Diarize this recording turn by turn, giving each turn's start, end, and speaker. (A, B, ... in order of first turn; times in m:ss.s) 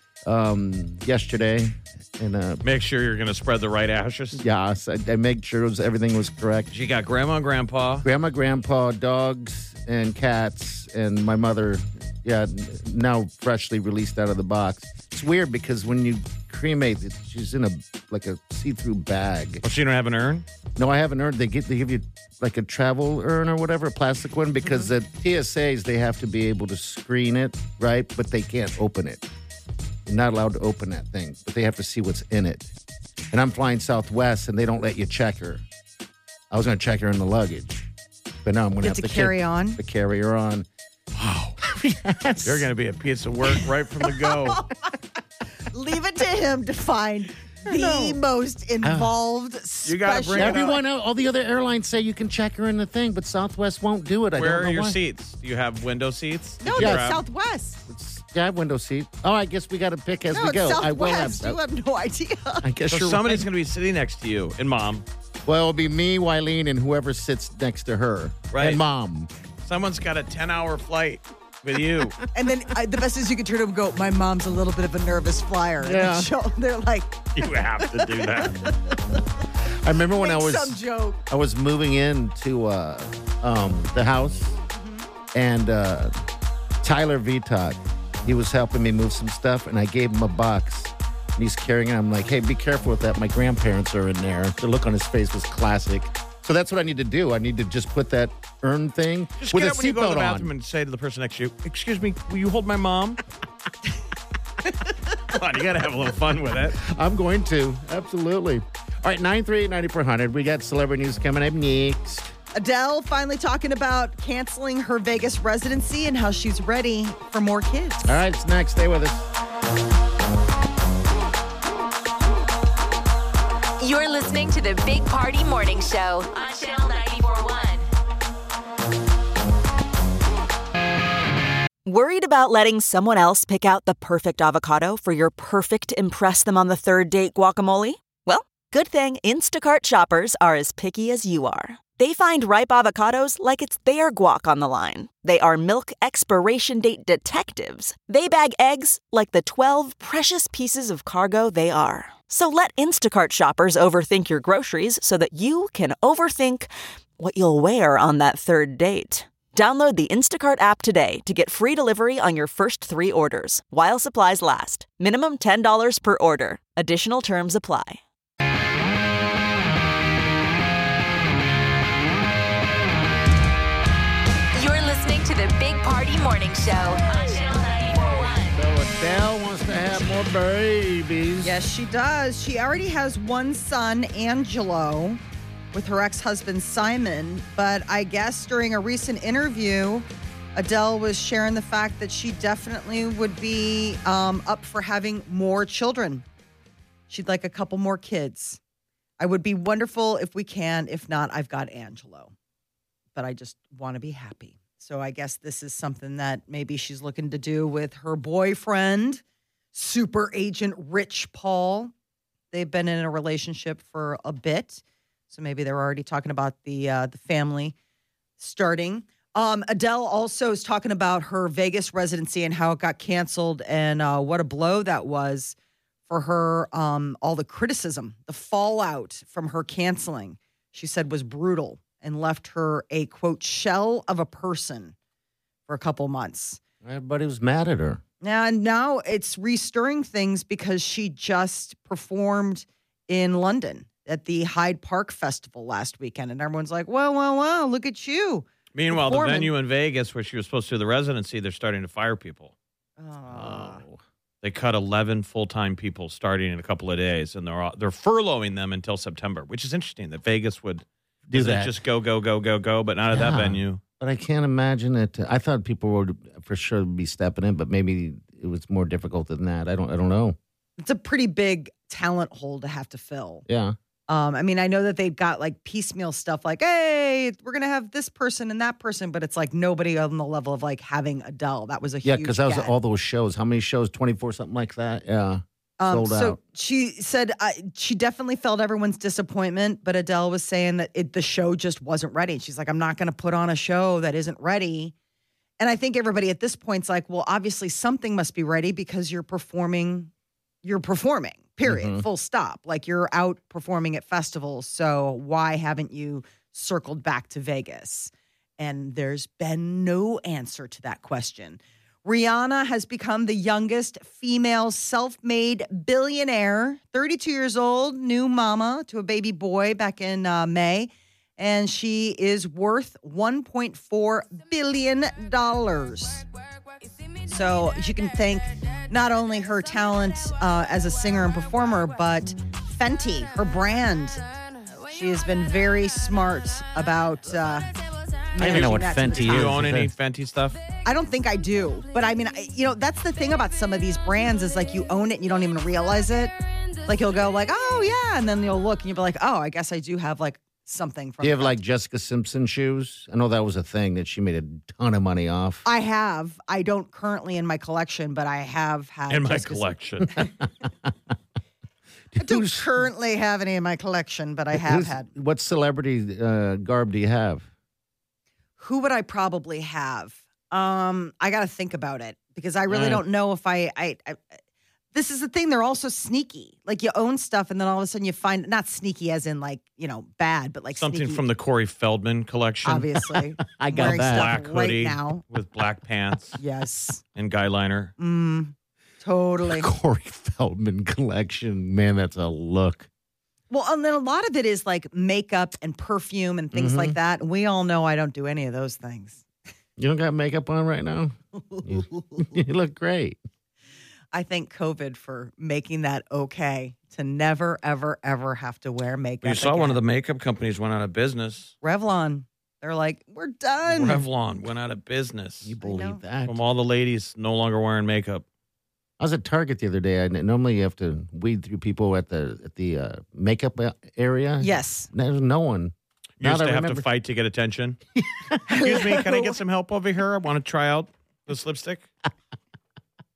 0:00.3-0:02.6 A
0:02.6-0:04.4 B
0:04.4-0:06.7 A
0:06.7-0:08.0 B
0:08.0-0:19.6 A
0:19.6-0:20.5 B
0:20.8-0:29.2 A
0:30.1-0:32.7 A
0:33.3-0:35.6 A
0:36.5-0:37.9 A
0:38.4-0:40.7 A
0:38.8-0:39.8 C
0:41.2-0:41.6 B
0:41.6-0:42.7 A
0:42.4-0:44.6 B
0:45.7-0:50.8 C
0:48.8-0:49.1 A
0:49.8-0:50.8 B
0:50.3-0:55.0 A
0:54.4-0:57.2 B
0:56.6-0:57.8 C
0:56.7-0:57.1 A
0:57.9-1:01.6 A
1:00.3-1:02.6 C
1:02.6-1:03.5 A
1:02.9-1:05.0 B
1:05.5-1:09.3 A
1:08.5-1:08.8 B
1:09.6-1:12.2 B
1:12.3-1:17.2 C
1:15.8-1:16.3 A
1:17.4-1:18.6 B
1:17.8-1:18.7 C
1:19.8-1:24.6 A
1:20.2-1:21.2 C
1:24.7-1:25.1 C
1:25.3-1:26.1 A
1:26.8-1:40.5 A
1:39.4-1:43.2 B
1:45.3-1:46.8 B
1:46.8-1:52.3 A
1:52.5-1:58.2 C
1:58.0-1:59.3 A
2:03.8-2:07.9 D
2:11.8-2:48.0 E
2:54.6-2:58.6 D
2:58.5-3:01.6 A
3:01.4-3:05.2 C
3:05.7-3:16.2 C
3:17.1-3:18.6 C
3:19.2-3:22.3 C
3:23.2-3:29.2 C
3:29.7-3:31.9 C
3:32.5-3:37.8 C
3:38.4-3:45.6 C
3:46.1-3:55.0 C
3:55.7-3:56.6 C
3:56.8-3:58.0 A
3:58.2-4:09.5 C
4:08.7-4:12.5 B
4:13.0-4:13.8 C
4:13.3-4:14.0 A
4:14.4-4:23.8 B
4:21.3-4:21.7 A
4:23.1-4:30.4 A
4:30.8-4:33.4 C
4:33.5-4:33.8 A
4:34.1-4:42.7 C
4:42.0-4:46.4 A
4:45.8-4:54.9 C
4:55.6-5:00.1 C
5:00.6-5:26.2 C
5:01.7-5:02.1 A
5:27.2-5:34.2 C
5:34.8-5:37.7 C
5:38.3-5:39.6 C
5:38.4-5:39.9 A
5:38.4-5:40.6 B
5:40.8-5:46.3 C
5:46.8-5:51.6 C
5:51.2-5:55.6 A
5:55.6-6:00.3 C
5:59.1-6:00.1 B
6:02.1-6:02.7 A
6:02.2-6:05.1 C
6:04.5-6:07.5 A
6:08.6-6:14.2 C
6:12.7-6:13.0 A
6:14.9-6:21.2 C
6:20.7-6:23.0 B
6:22.6-6:25.2 C
6:23.4-6:24.4 A
6:23.8-6:26.4 B
6:26.4-6:27.0 C
6:27.2-6:27.9 B
6:28.0-6:29.7 C
6:29.4-6:32.9 A
6:33.5-6:39.2 C
6:36.5-6:37.0 A
6:39.8-6:43.2 A
6:41.5-6:42.2 C
6:44.1-6:49.8 C
6:49.2-6:51.5 B
6:51.6-6:54.0 C
6:53.7-6:55.5 B
6:55.4-6:56.4 A
6:55.6-6:56.0 C
6:56.2-6:58.2 B
6:59.0-7:06.9 A
7:04.4-7:04.9 C
7:06.2-7:07.8 B
7:08.5-7:09.4 C
7:08.5-7:11.9 B